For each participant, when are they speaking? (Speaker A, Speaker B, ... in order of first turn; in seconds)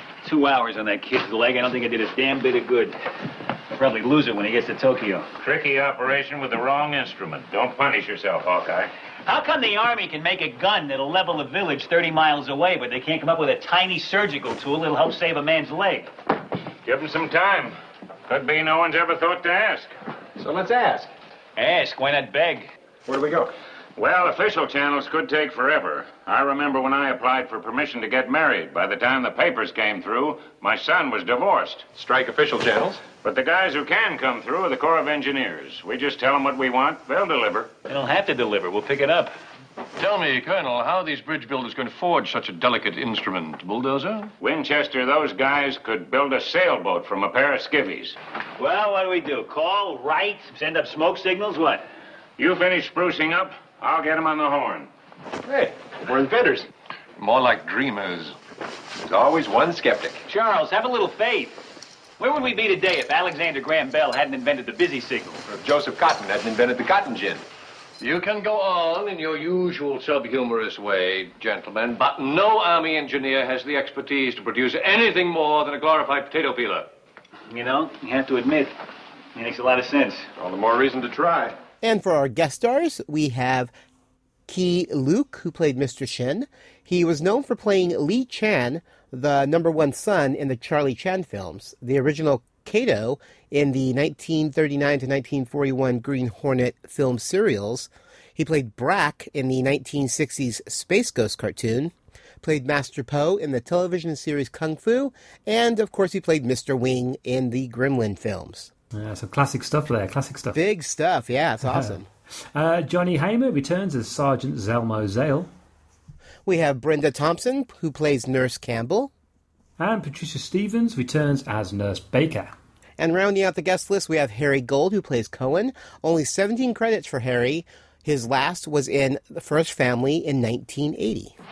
Speaker A: 0.2-3.0, 3.7-5.3, 9.3-16.1, 21.6-22.7, 37.9-39.3, 48.6-51.8, 60.3-61.6, 62.2-65.4, 77.5-78.7, 79.3-80.3
Speaker B: 5.4-8.9, 16.9-17.8, 18.3-19.9, 24.0-31.9, 33.2-37.7, 44.4-48.2, 52.4-54.9
Speaker C: 20.4-21.1, 23.1-23.5, 31.9-33.0, 55.5-56.7, 59.0-60.2, 65.5-67.4, 80.5-81.5
Speaker D: 40.0-44.3, 57.2-58.4, 68.0-76.9, 80.4-81.5
Speaker E: 81.8-83.7, 84.5-108.7, 110.5-112.1, 116.5-119.1, 123.0-131.3
Speaker F: 108.9-110.6, 111.7-112.0, 112.5-115.5, 119.8-122.5